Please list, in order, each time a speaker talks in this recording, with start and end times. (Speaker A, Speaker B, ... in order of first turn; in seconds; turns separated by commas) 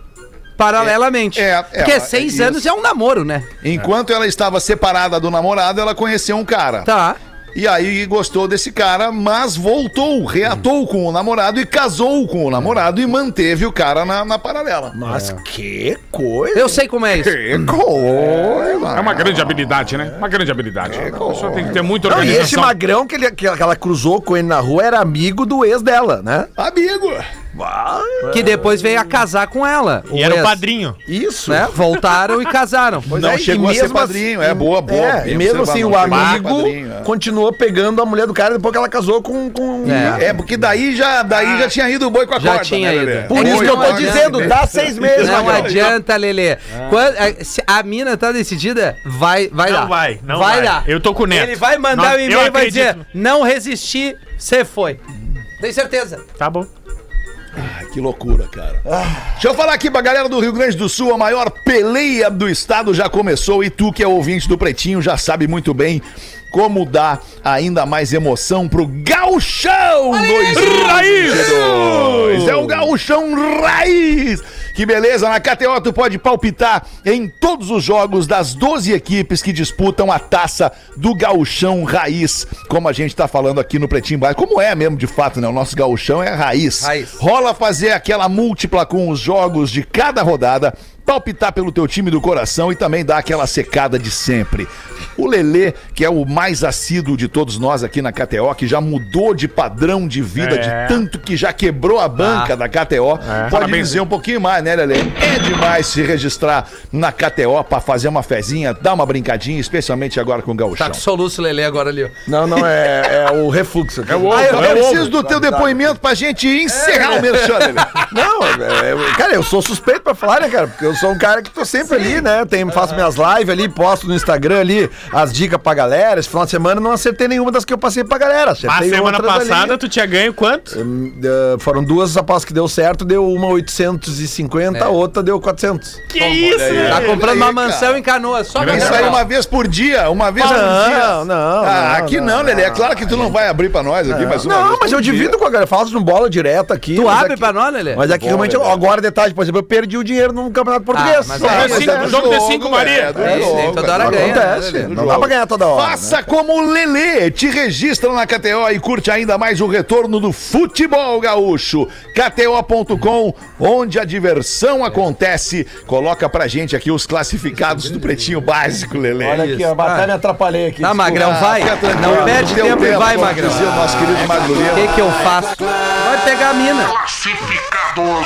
Speaker A: 0.6-3.5, Speaker B: 0.8-2.6, Speaker B: 3.6-6.9, Speaker A: 6.8-7.2, Speaker B: 7.5-15.0, Speaker C: 14.9-16.8, Speaker A: 15.1-15.4, Speaker A: 16.5-17.7, Speaker B: 17.1-19.6, Speaker C: 17.6-19.3, Speaker D: 18.9-22.8, Speaker C: 20.8-26.5, Speaker B: 20.9-22.4, Speaker B: 26.6-27.3, Speaker C: 27.5-28.8, Speaker A: 28.3-30.6, Speaker E: 30.1-31.0, Speaker C: 31.1-31.8, Speaker A: 31.5-33.1, Speaker C: 33.1-40.4, Speaker B: 33.1-37.1, Speaker E: 36.0-36.4, Speaker A: 39.8-40.2, Speaker B: 39.8-46.0, Speaker A: 42.4-44.6, Speaker C: 43.3-46.0, Speaker A: 45.2-55.0, Speaker E: 49.6-53.0, Speaker A: 55.6-56.2, Speaker E: 56.4-56.7, Speaker B: 57.5-111.0, Speaker C: 58.9-59.3, Speaker D: 70.5-71.7, Speaker C: 71.8-72.9, Speaker A: 86.8-87.2, Speaker E: 100.4-101.0, Speaker A: 102.2-102.5, Speaker E: 103.2-103.5, Speaker D: 103.5-104.0, Speaker A: 110.8-112.6, Speaker C: 112.3-116.0, Speaker D: 114.1-115.1, Speaker A: 114.3-115.0, Speaker B: 114.3-118.0, Speaker A: 116.7-118.0, Speaker C: 118.1-129.8, Speaker E: 128.7-130.8, Speaker C: 130.7-136.0, Speaker E: 136.1-137.5, Speaker B: 136.2-138.0, Speaker A: 136.7-139.2, Speaker D: 138.6-139.2, Speaker B: 138.6-145.3, Speaker C: 140.3-143.3, Speaker C: 144.1-152.2, Speaker A: 146.9-148.0, Speaker B: 148.0-148.9, Speaker A: 150.9-152.2, Speaker B: 151.4-169.7, Speaker D: 151.4-153.5, Speaker A: 153.2-154.9, Speaker C: 153.2-156.2, Speaker C: 169.2-171.4, Speaker A: 169.4-170.1, Speaker A: 170.8-173.7, Speaker B: 171.1-175.0, Speaker C: 172.0-172.3, Speaker A: 174.7-177.0